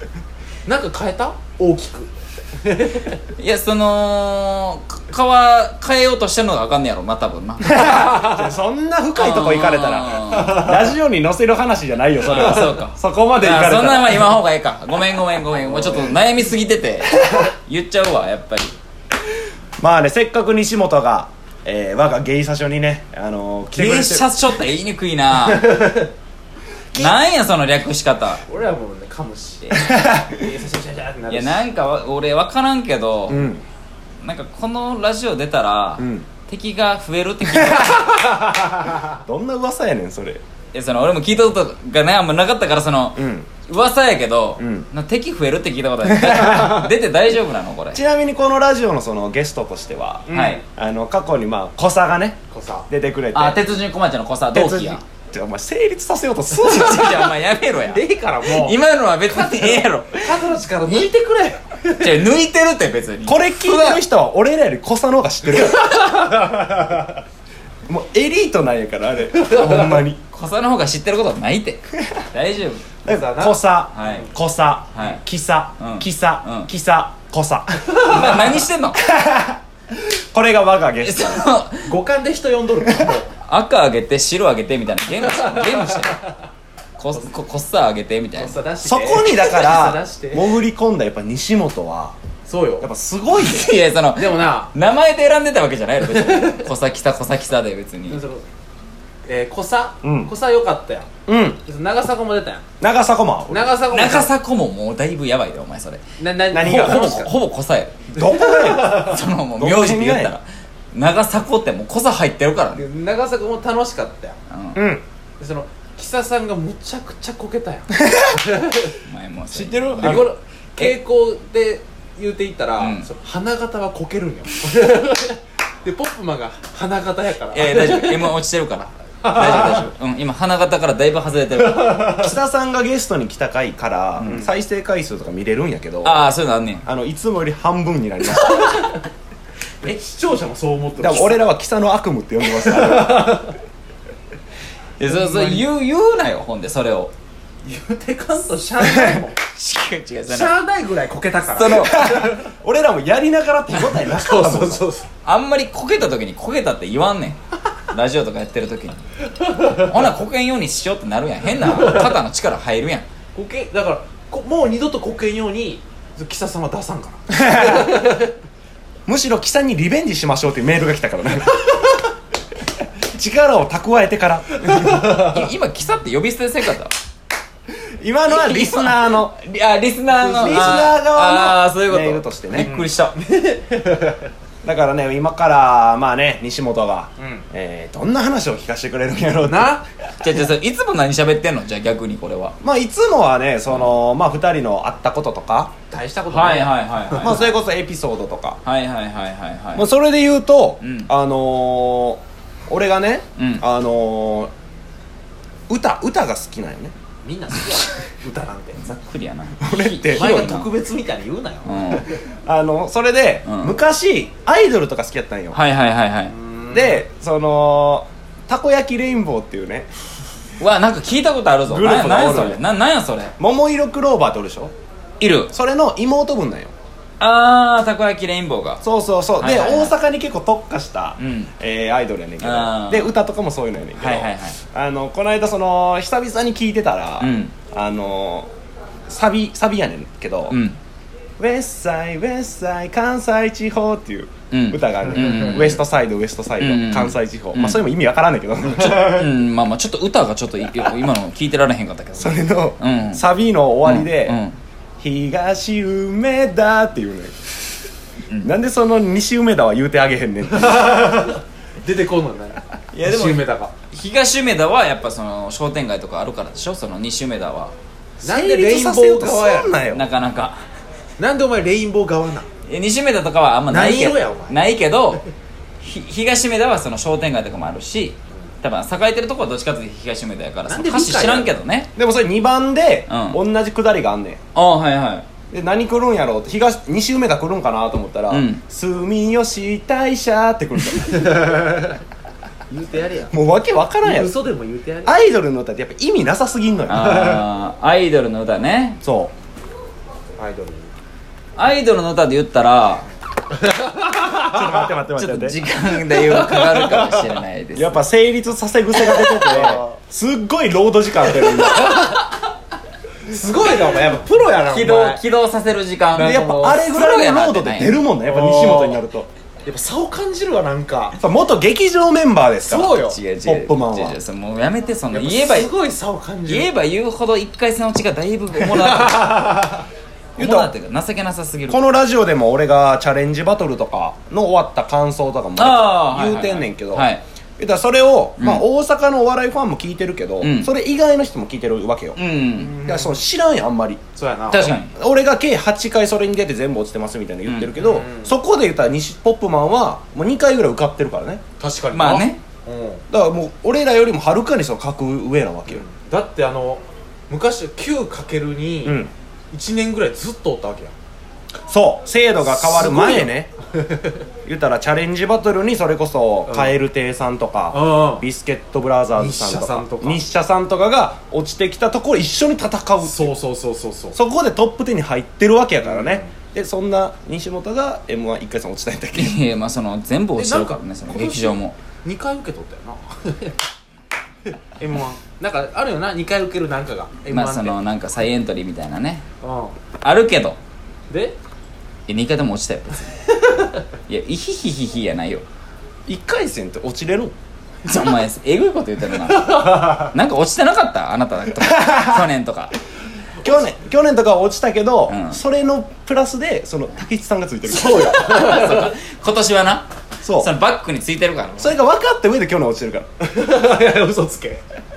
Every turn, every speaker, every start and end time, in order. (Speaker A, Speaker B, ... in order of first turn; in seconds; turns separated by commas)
Speaker A: 0.7-3.2, Speaker B: 3.4-8.2, Speaker C: 7.7-14.4, Speaker A: 7.9-8.4, Speaker B: 9.1-10.7, Speaker B: 12.3-18.8, Speaker C: 15.7-16.1, Speaker C: 19.8-24.3, Speaker B: 23.7-25.9, Speaker A: 25.4-26.1, Speaker B: 26.9-28.4, Speaker A: 28.4-31.6, Speaker C: 29.7-30.3, Speaker B: 31.3-33.5, Speaker C: 33.3-33.6, Speaker B: 34.2-38.3, Speaker C: 36.0-36.3, Speaker A: 38.0-39.1, Speaker C: 39.1-40.4, Speaker B: 40.7-48.0, Speaker C: 43.2-43.5, Speaker C: 44.6-44.9, Speaker C: 46.0-46.9, Speaker C: 47.9-53.8, Speaker A: 50.3-50.6, Speaker B: 50.3-50.6, Speaker A: 52.5-52.9, Speaker B: 53.3-55.0, Speaker C: 54.5-57.3, Speaker B: 56.6-60.4, Speaker A: 57.7-58.8, Speaker A: 59.4-62.1, Speaker B: 61.9-63.8, Speaker C: 63.2-66.4, Speaker A: 63.7-64.0, Speaker A: 65.8-66.9, Speaker C: 67.9-70.2, Speaker A: 69.4-70.0, Speaker B: 70.3-72.9, Speaker A: 73.0-74.2, Speaker C: 73.0-81.5, Speaker B: 73.9-74.2, Speaker B: 74.9-75.2, Speaker B: 75.8-76.7, Speaker B: 78.0-79.0, Speaker A: 78.0-78.4, Speaker B: 81.0-81.9, Speaker A: 81.8-83.3, Speaker B: 83.4-86.3, Speaker A: 85.3-86.2, Speaker B: 87.0-88.6, Speaker A: 88.3-90.6, Speaker C: 88.8-92.2, Speaker A: 92.5-92.9, Speaker C: 92.8-93.7, Speaker B: 93.3-98.2, Speaker A: 94.1-94.7, Speaker A: 96.0-96.7, Speaker A: 98.1-98.5, Speaker A: 99.2-101.1, Speaker C: 100.0-100.3, Speaker C: 101.2-101.6, Speaker A: 101.6-102.6, Speaker C: 102.8-103.7, Speaker A: 103.5-104.3, Speaker B: 103.9-106.0, Speaker A: 106.2-107.3, Speaker C: 106.5-107.1, Speaker B: 106.6-108.2, Speaker C: 108.1-110.4, Speaker A: 108.2-109.2, Speaker B: 108.8-112.8, Speaker A: 112.8-114.4, Speaker B: 114.5-114.8, Speaker C: 114.8-115.0, Speaker A: 115.4-119.0, Speaker B: 118.9-120.3, Speaker C: 119.5-120.3, Speaker A: 120.0-128.3, Speaker B: 122.8-123.1, Speaker B: 127.5-132.3, Speaker A: 129.2-129.9, Speaker A: 131.6-132.1, Speaker C: 132.0-136.2, Speaker A: 134.2-134.5, Speaker B: 136.0-136.9, Speaker C: 136.8-138.8, Speaker A: 138.4-139.1, Speaker A: 139.8-141.4, Speaker C: 141.0-143.4, Speaker A: 142.6-143.6, Speaker B: 145.0-147.1, Speaker A: 145.0-145.7, Speaker A: 147.6-149.4, Speaker C: 148.9-149.2, Speaker B: 149.5-150.5, Speaker A: 150.3-152.3, Speaker B: 151.5-152.2, Speaker C: 151.8-154.9, Speaker A: 154.0-155.1, Speaker B: 155.2-157.4, Speaker B: 157.9-159.0, Speaker B: 159.6-163.1, Speaker A: 161.6-162.2, Speaker A: 163.3-168.3, Speaker C: 167.3-167.9, Speaker C: 169.1-171.6, Speaker C: 173.1-175.1, Speaker B: 174.9-176.9, Speaker A: 175.1-175.4, Speaker C: 178.0-179.4, Speaker B: 178.3-183.2, Speaker A: 180.2-180.9, Speaker C: 180.3-182.7, Speaker A: 182.6-184.3, Speaker C: 184.6-189.8, Speaker A: 189.4-189.8, Speaker B: 190.2-192.6, Speaker C: 192.6-195.8, Speaker B: 193.7-193.9, Speaker A: 195.9-197.5, Speaker B: 196.3-197.5, Speaker C: 197.2-198.6, Speaker B: 198.6-199.9, Speaker C: 199.8-204.5, Speaker B: 200.8-201.1, Speaker B: 203.4-203.6, Speaker C: 205.7-206.9, Speaker A: 207.2-208.9, Speaker B: 208.8-210.7, Speaker C: 209.6-210.5, Speaker A: 210.1-212.0, Speaker B: 211.6-212.1, Speaker C: 212.0-215.6, Speaker B: 213.4-213.8, Speaker B: 215.5-216.3, Speaker A: 216.3-217.0, Speaker C: 216.7-219.9, Speaker B: 220.6-223.3, Speaker C: 221.7-222.6, Speaker C: 223.4-224.7, Speaker B: 225.2-225.5, Speaker C: 225.5-226.7, Speaker B: 227.2-228.8, Speaker C: 228.8-238.5, Speaker B: 229.4-229.9, Speaker B: 231.2-231.5, Speaker B: 232.4-233.1, Speaker B: 234.0-234.6, Speaker B: 237.2-237.6, Speaker C: 239.1-240.6, Speaker B: 240.5-240.8, Speaker C: 241.4-249.3, Speaker B: 244.5-245.8, Speaker B: 246.6-247.9, Speaker B: 248.7-253.2, Speaker C: 252.2-254.4, Speaker B: 253.8-254.6, Speaker C: 255.0-257.4, Speaker C: 258.4-261.0, Speaker A: 260.6-263.7, Speaker B: 262.9-267.7, Speaker A: 268.2-269.8, Speaker C: 268.2-270.1, Speaker B: 269.8-270.6, Speaker A: 271.2-272.5, Speaker B: 272.6-275.2, Speaker A: 273.7-274.6, Speaker B: 275.8-281.9, Speaker A: 280.6-281.6, Speaker C: 281.9-284.4, Speaker B: 283.1-283.4, Speaker B: 284.6-285.2, Speaker C: 285.5-291.7, Speaker B: 288.3-288.6, Speaker A: 291.3-291.9, Speaker A: 292.7-293.3, Speaker C: 293.3-294.3, Speaker A: 294.0-295.1, Speaker C: 295.1-297.2, Speaker B: 296.9-299.0, Speaker A: 297.1-297.4, Speaker C: 299.0-299.3, Speaker A: 300.4-300.9, Speaker B: 301.6-303.1, Speaker A: 303.6-304.8, Speaker C: 304.4-305.6, Speaker B: 305.1-308.0, Speaker A: 306.1-307.3, Speaker C: 307.8-312.2, Speaker A: 309.4-309.8, Speaker A: 311.5-312.2, Speaker A: 313.3-315.2, Speaker B: 314.7-318.0, Speaker A: 316.1-316.9, Speaker C: 316.2-319.3, Speaker A: 318.2-319.0, Speaker A: 319.6-321.2, Speaker C: 321.1-324.2, Speaker A: 322.6-323.2, Speaker B: 322.9-325.7, Speaker A: 325.1-326.7, Speaker B: 326.5-329.7, Speaker A: 328.6-329.9, Speaker C: 330.4-330.7, Speaker B: 330.4-331.9, Speaker C: 331.7-342.2, Speaker B: 335.6-337.2, Speaker B: 338.4-338.6, Speaker B: 340.4-340.7, Speaker B: 342.1-342.8, Speaker A: 342.6-343.2, Speaker C: 342.7-344.0, Speaker A: 344.1-344.8, Speaker B: 344.5-344.9, Speaker C: 344.9-351.4, Speaker B: 347.4-347.7, Speaker A: 347.8-348.3, Speaker A: 351.6-353.0, Speaker B: 351.9-352.4, Speaker C: 353.1-355.9, Speaker A: 355.7-360.9, Speaker C: 358.9-359.1, Speaker C: 361.7-363.5, Speaker A: 362.4-364.2, Speaker C: 364.4-373.3, Speaker A: 367.7-368.2, Speaker A: 369.1-370.2, Speaker A: 373.0-374.2, Speaker C: 374.1-379.4, Speaker A: 375.8-376.3, Speaker B: 379.1-381.8, Speaker A: 380.4-383.6, Speaker A: 384.8-387.8, Speaker B: 387.3-389.2, Speaker A: 389.4-389.8, Speaker B: 390.0-390.6, Speaker A: 391.1-391.4, Speaker B: 392.1-393.3, Speaker A: 393.5-393.8, Speaker B: 394.1-395.4, Speaker C: 396.1-397.3, Speaker B: 397.9-402.8, Speaker A: 399.1-400.1, Speaker C: 401.9-402.1, Speaker C: 403.4-408.2, Speaker B: 405.1-405.4, Speaker A: 407.7-408.9, Speaker B: 408.0-411.8, Speaker C: 410.2-410.5, Speaker C: 411.6-413.1, Speaker A: 413.2-414.6